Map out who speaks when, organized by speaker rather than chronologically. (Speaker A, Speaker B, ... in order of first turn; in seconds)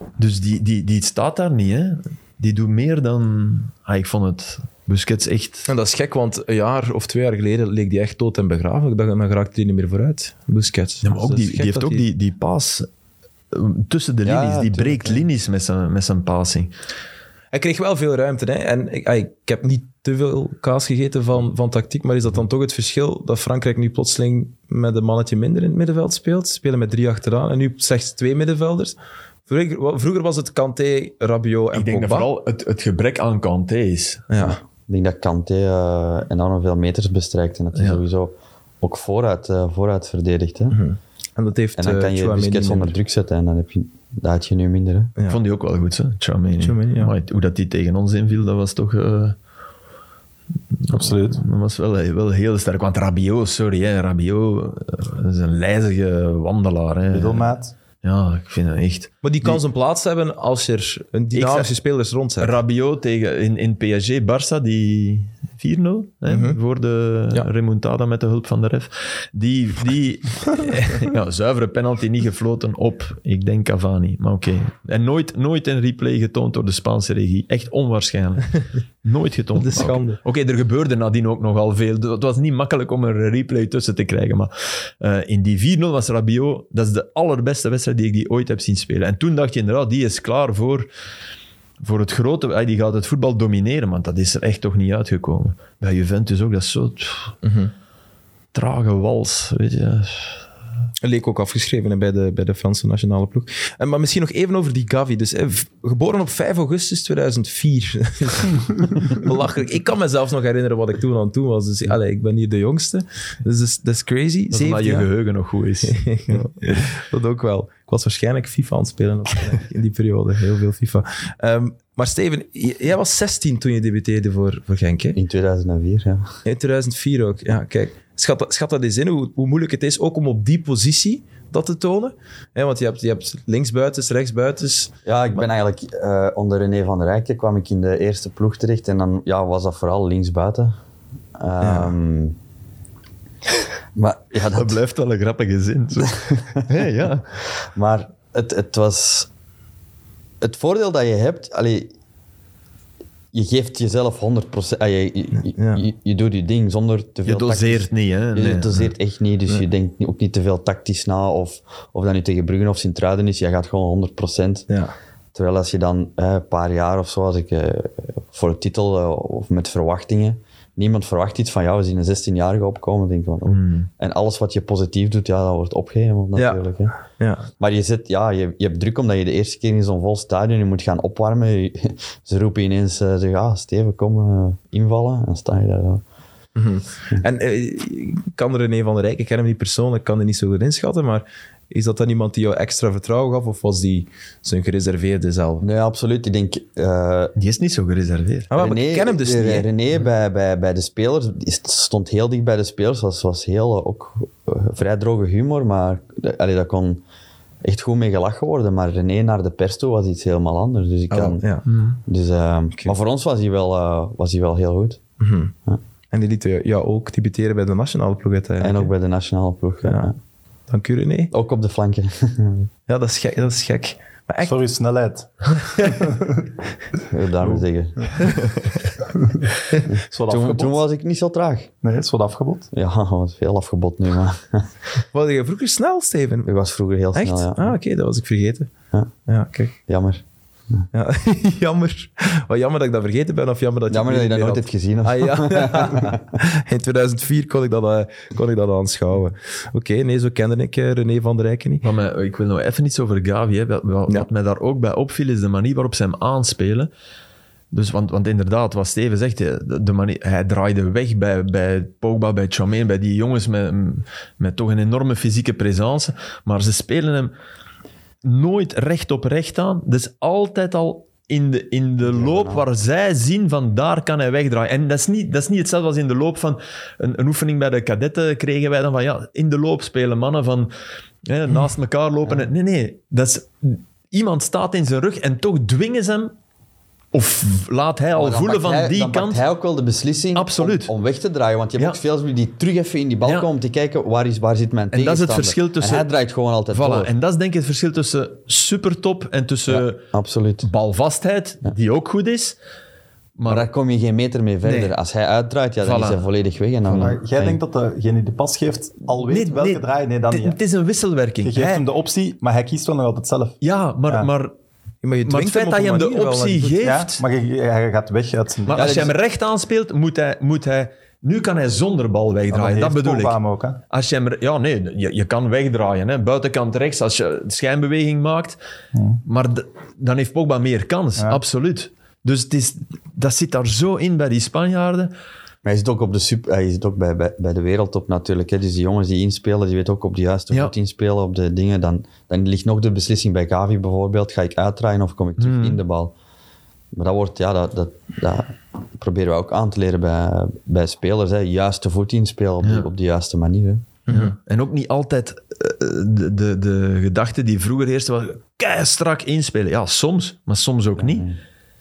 Speaker A: 0.2-5.7, 11.0-12.9, 13.5-16.7, 31.7-34.3, 45.3-49.4, 50.9-59.6, 61.4-61.7, 62.4-90.9, 91.8-97.3, 98.5-100.4, 114.5-116.5, 144.5-147.2, 157.3-158.9, 173.5-173.9, 197.4-198.5, 211.7-212.0, 228.2-228.8, 251.8-256.9, 257.7-267.3, 268.2-280.7, 281.3-286.3, 287.1-289.4, 290.4-290.9, 294.9-296.1, 296.7-300.0, 300.6-302.6, 303.4-303.7, 304.6-304.9, 305.8-306.2, 309.2-311.9, 313.6-314.5, 315.2-317.2, 318.7-323.4, 323.9-328.6, 329.2-335.1, 345.4-345.8, 352.6-352.9, 354.1-361.3
Speaker B: 5.7-12.1, 17.5-28.9, 29.5-32.3, 34.3-34.6, 40.7-43.0, 46.6-47.1, 59.2-62.6, 66.3-66.6, 70.7-71.1, 79.6-80.2, 97.4-97.7, 101.0-115.1, 115.9-125.2, 126.5-134.9, 141.6-141.9, 155.4-155.8, 164.7-164.9, 176.4-177.5, 186.6-195.7, 198.5-199.7, 211.1-211.7, 215.2-215.5, 216.1-218.9, 219.8-220.1, 220.7-221.3, 222.9-224.6, 235.1-236.5, 237.1-238.7, 239.3-239.8, 240.9-251.8, 315.0-316.9, 354.1-354.4
Speaker C: 14.2-15.2, 34.9-40.8, 41.8-45.1, 125.2-126.3, 135.1-140.8, 141.4-142.4, 143.9-144.8, 146.1-146.6, 147.7-149.3, 150.4-151.9, 153.3-164.7, 165.3-176.9, 177.6-186.0, 195.6-197.3, 198.5-207.0, 207.6-211.4, 212.1-215.0, 218.6-220.2, 221.3-222.7, 227.1-228.1, 229.9-231.7, 232.7-234.7, 236.4-237.8, 239.9-240.8, 243.9-246.2, 272.0-272.7, 288.1-297.1, 299.7-300.7, 303.5-307.6, 318.7-319.1, 335.6-346.1, 346.9-353.9, 361.0-361.4
Speaker D: 50.9-51.4, 57.1-57.7, 224.4-226.5, 229.2-229.5, 230.1-230.8, 231.8-232.7, 306.9-310.6, 311.4-314.3, 316.8-319.1, 322.5-323.8, 328.9-329.2